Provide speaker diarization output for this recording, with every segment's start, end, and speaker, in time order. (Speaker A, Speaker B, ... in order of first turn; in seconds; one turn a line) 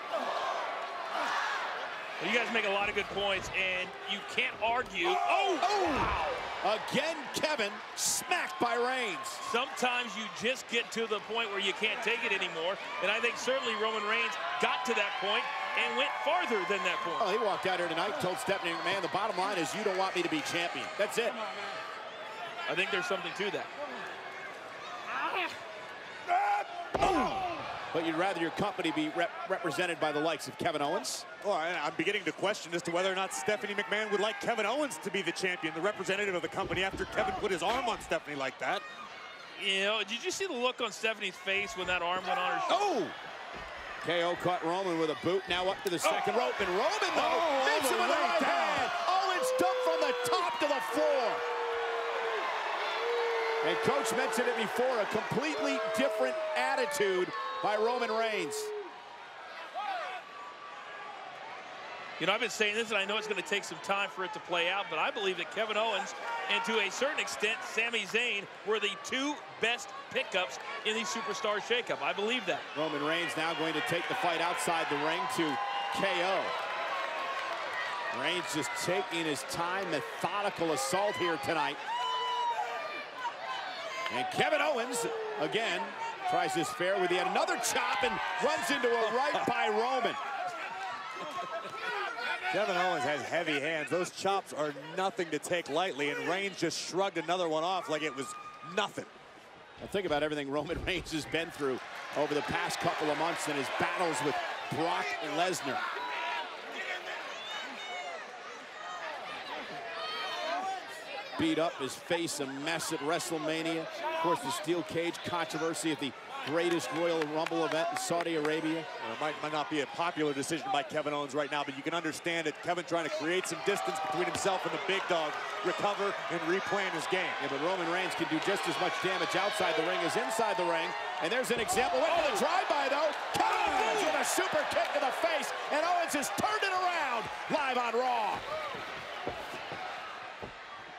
Speaker A: 2.2-5.7
Speaker B: 5.4-9.4
Speaker A: 9.4-17.3
Speaker B: 17.2-21.4
Speaker A: 22.7-23.7
Speaker B: 27.9-31.2
Speaker C: 31.4-38.8
Speaker A: 39.5-42.9
Speaker B: 42.7-43.1
Speaker B: 44.0-51.4
Speaker C: 47.1-48.9
Speaker B: 53.6-58.7
Speaker A: 62.2-72.7
Speaker B: 72.7-76.5
Speaker B: 78.1-81.8
Speaker B: 84.1-90.2
Speaker C: 92.5-99.1
Speaker B: 99.8-105.8
Speaker B: 111.4-118.9
Speaker C: 119.0-127.4
Speaker B: 127.4-138.4
Speaker A: 132.1-132.4
Speaker A: 133.4-134.2